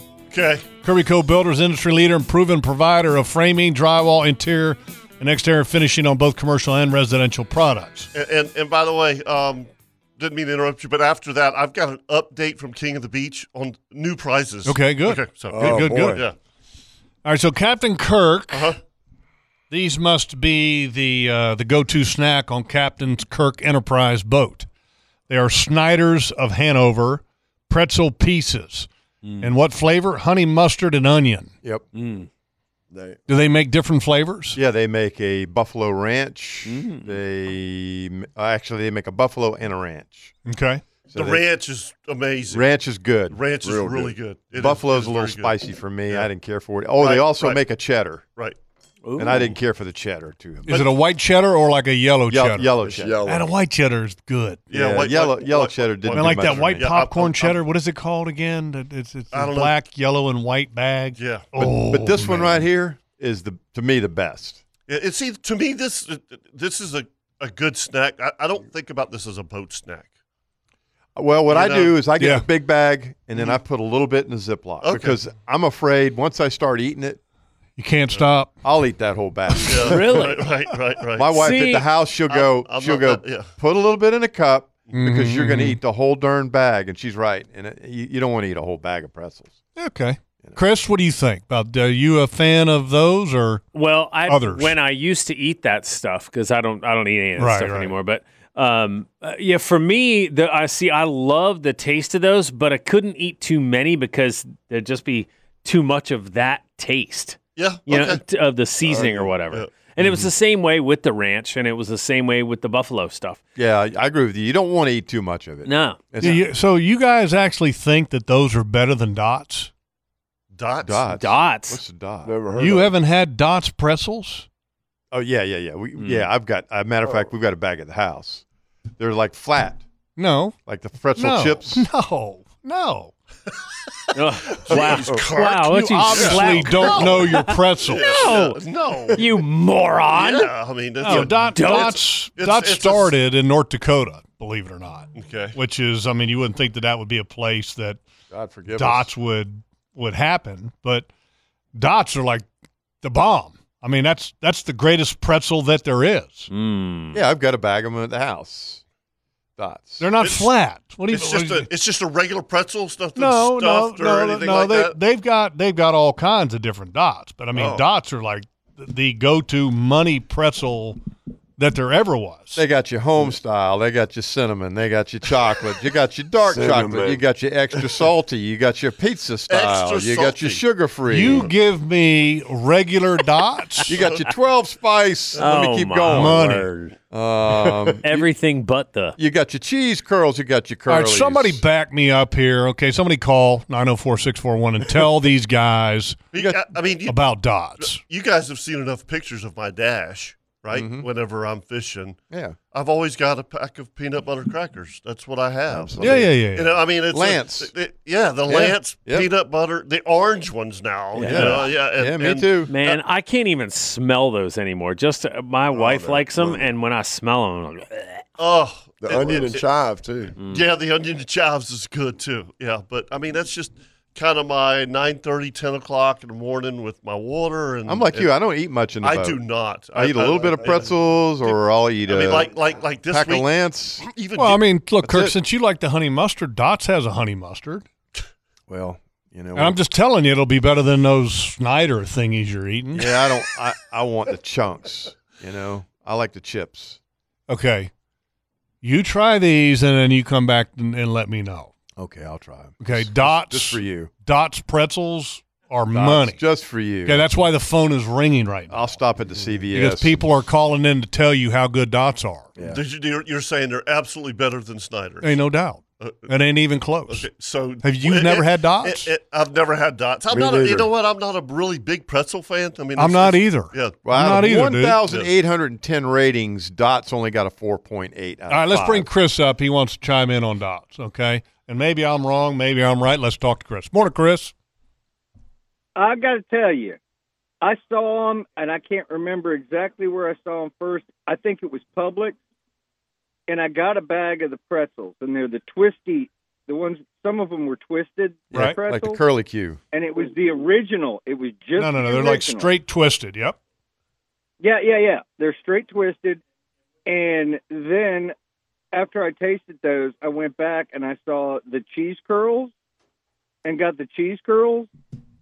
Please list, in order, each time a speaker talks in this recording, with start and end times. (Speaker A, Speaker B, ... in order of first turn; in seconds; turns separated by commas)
Speaker A: 0.3-0.7, Speaker B: 0.8-8.1, Speaker A: 8.1-16.3, Speaker B: 14.7-16.2, Speaker C: 15.5-16.2, Speaker B: 17.2-18.7, Speaker A: 18.5-18.8, Speaker B: 19.7-24.7, Speaker B: 25.3-28.9, Speaker D: 29.2-29.5, Speaker B: 29.4-31.5, Speaker D: 31.9-32.3, Speaker C: 32.9-33.2, Speaker B: 33.3-34.6, Speaker E: 34.5-40.3, Speaker D: 36.6-37.2, Speaker B: 40.5-40.8, Speaker E: 41.1-41.4, Speaker A: 41.1-42.6, Speaker E: 42.5-43.4, Speaker A: 43.3-45.5, Speaker C: 43.6-44.1, Speaker E: 44.5-48.2, Speaker A: 47.0-47.6, Speaker D: 49.0-49.5, Speaker E: 49.2-50.8, Speaker A: 49.2-49.5, Speaker A: 50.7-50.9, Speaker B: 50.7-52.7, Speaker E: 52.3-53.2, Speaker C: 52.8-53.5, Speaker B: 53.2-54.6, Speaker A: 54.7-57.6, Speaker E: 54.7-56.9, Speaker B: 56.1-62.6, Speaker A: 59.3-59.7, Speaker A: 61.1-61.4, Speaker E: 61.6-64.6, Speaker A: 64.9-70.1, Speaker E: 71.2-77.2, Speaker A: 71.5-72.0, Speaker B: 72.2-72.5, Speaker A: 74.8-75.2, Speaker B: 77.8-78.5, Speaker E: 78.6-80.2, Speaker A: 79.7-81.4, Speaker D: 79.9-80.4, Speaker E: 81.1-89.5, Speaker D: 81.3-81.9, Speaker A: 82.3-83.5, Speaker B: 84.9-85.8, Speaker B: 89.8-93.6, Speaker D: 93.7-113.4, Speaker B: 94.2-94.7, Speaker B: 97.4-98.0, Speaker A: 107.5-108.2, Speaker A: 109.0-109.7, Speaker E: 110.0-110.3, Speaker E: 113.5-116.4, Speaker D: 115.7-116.1, Speaker B: 116.2-119.7, Speaker A: 120.5-121.0, Speaker E: 120.8-122.3, Speaker D: 121.1-121.8, Speaker C: 122.2-122.9, Speaker B: 122.6-124.5, Speaker E: 125.1-128.4, Speaker D: 126.0-126.3, Speaker C: 127.0-127.3, Speaker E: 129.0-129.8, Speaker B: 130.2-130.5, Speaker E: 130.7-131.8, Speaker B: 131.2-133.1, Speaker D: 134.1-142.0, Speaker A: 134.5-139.2, Speaker B: 135.4-138.3, Speaker A: 140.1-143.1, Speaker B: 141.0-148.0, Speaker A: 145.2-145.6, Speaker E: 148.3-149.1, Speaker B: 148.7-151.1, Speaker B: 151.7-152.4, Speaker B: 153.0-156.5, Speaker D: 156.5-157.2, Speaker E: 157.1-158.8, Speaker E: 159.6-160.1, Speaker B: 160.0-161.7, Speaker A: 160.2-160.5, Speaker A: 161.1-164.9, Speaker B: 163.2-171.0, Speaker A: 167.5-167.8, Speaker B: 171.6-172.6, Speaker E: 172.6-181.5, Speaker C: 176.4-177.2, Speaker A: 179.5-180.6, Speaker B: 181.1-184.0, Speaker E: 183.9-188.2, Speaker D: 185.3-186.9, Speaker B: 186.1-186.7, Speaker D: 188.0-189.2, Speaker E: 189.2-191.6, Speaker B: 190.9-198.0, Speaker A: 196.3-197.2, Speaker A: 197.8-202.2, Speaker E: 200.7-201.1, Speaker E: 202.3-202.6, Speaker A: 202.7-213.0, Speaker C: 205.7-206.3, Speaker B: 206.0-206.7, Speaker E: 207.1-207.7, Speaker E: 208.5-209.3, Speaker D: 211.1-211.7, Speaker E: 211.2-212.7, Speaker D: 212.7-218.2, Speaker C: 215.7-216.7, Speaker A: 218.4-219.6, Speaker C: 219.0-220.3, Speaker D: 220.4-220.6, Speaker A: 220.4-228.3, Speaker E: 227.9-234.1, Speaker A: 229.0-233.5, Speaker C: 230.3-230.9, Speaker A: 234.0-234.6, Speaker B: 234.4-237.8, Speaker E: 235.0-235.3, Speaker E: 238.7-239.8, Speaker B: 239.5-243.1, Speaker E: 242.9-247.0, Speaker B: 247.5-247.9, Speaker B: 248.8-251.7, Speaker E: 252.0-254.1, Speaker B: 252.8-256.4, Speaker E: 255.9-257.3, Speaker B: 257.0-258.7, Speaker E: 258.7-260.2, Speaker B: 259.7-262.5, Speaker E: 262.6-262.8, Speaker A: 262.7-265.4, Speaker B: 265.2-267.3, Speaker A: 266.0-266.3, Speaker A: 267.1-273.9, Speaker B: 267.8-269.1, Speaker C: 270.3-270.9, Speaker B: 273.0-275.0, Speaker E: 274.0-279.1, Speaker B: 278.5-284.5, Speaker F: 285.9-287.0, Speaker F: 287.6-292.4, Speaker F: 293.5-299.2, Speaker E: 298.5-299.8, Speaker F: 299.9-302.7, Speaker B: 301.8-303.6, Speaker F: 304.6-306.4, Speaker F: 307.1-308.3, Speaker F: 308.9-312.7, Speaker F: 313.6-314.9